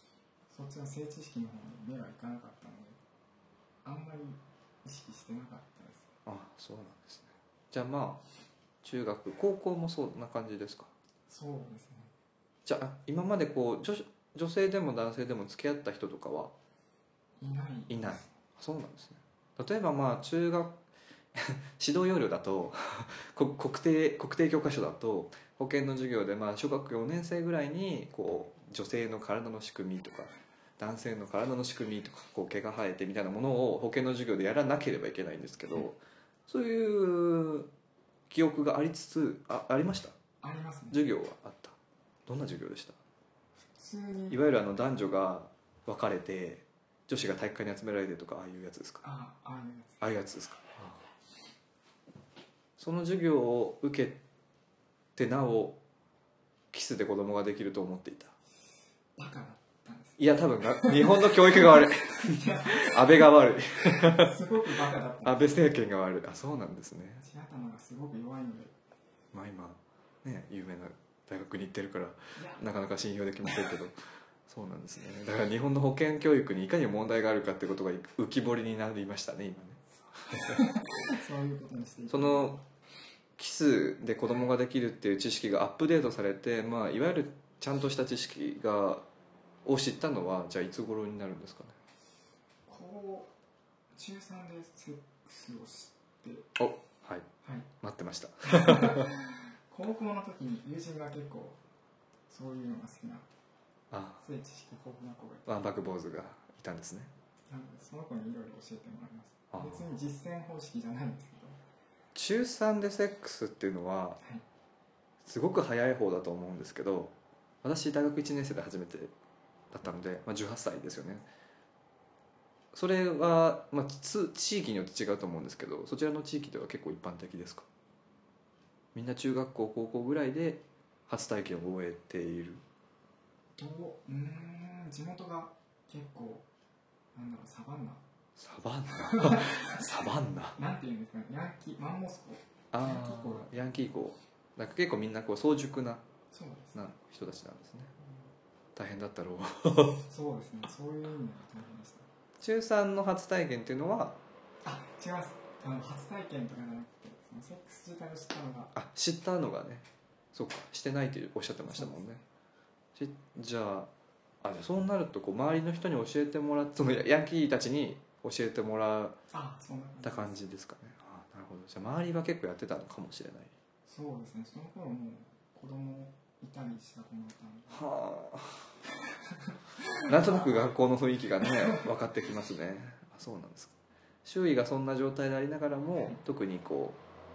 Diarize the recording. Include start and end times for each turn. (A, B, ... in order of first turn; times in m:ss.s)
0:00.5-0:03.0 A
0:03.8-0:06.1 A
0:06.3-0:08.2 B
0:08.8-0:10.9 B
0:11.3-0:12.1 A
0:12.7-0:16.5 B
0:17.4-0:18.3 A
0:17.9-0:20.8 B
0:21.3-0:37.7 B
0:38.3-0:40.2 B
0:40.4-0:41.0 A
0:40.9-0:43.0 B
0:43.6-0:44.4 A
0:44.3-0:49.0 B
0:49.0-0:50.0 A
0:50.0-0:51.0 B
0:52.8-0:54.2 B
0:55.2-0:55.8 B
0:56.7-0:58.3 B
0:59.2-1:05.7 A
1:00.2-1:04.5 B
1:05.2-1:07.2 B
1:07.2-1:08.8 A
1:09.3-1:14.0 B
1:12.4-1:12.6 A
1:14.5-1:20.6 B
1:20.2-1:22.6 A
1:22.1-1:22.6 B
1:23.4-1:29.1 B
1:29.6-1:31.8 B
1:32.7-1:33.3 A
1:34.0-1:36.5 A
1:36.6-1:37.3 B
1:37.4-1:37.7 A
1:37.8-1:39.1 B
1:38.4-1:41.6 A
1:42.3-1:43.3 A
1:43.9-1:44.2 B
1:44.2-1:45.6 A
1:45.5-1:47.1 B
1:47.5-1:51.6 A
1:49.5-1:49.8 B
1:52.2-1:54.2 B
1:55.2-1:59.1 B
1:59.7-2:01.3 B
2:02.7-2:07.7 B
2:09.0-2:12.6 B
2:13.6-2:16.5 A
2:17.2-2:18.0 A
2:18.4-2:20.6 B
2:19.0-2:19.8 A
2:20.6-2:23.5 A
2:22.7-2:26.0 B
2:26.3-2:26.9 A
2:26.8-2:27.9 B
2:28.0-2:28.3 A
2:28.8-2:30.0 B
2:29.7-2:32.1 A
2:32.4-2:34.2 B
2:34.6-2:38.7 A
2:38.8-2:42.2 B
2:41.7-2:42.2 A
2:43.0-2:43.9 B
2:44.4-2:49.2 B
2:49.3-2:50.4 A
2:50.0-2:53.5 B
2:53.9-2:57.9 A
2:57.7-2:58.7 B
2:59.2-3:00.6 A
3:00.0-3:07.0 B
3:01.4-3:01.9 A
3:06.0-3:06.2 A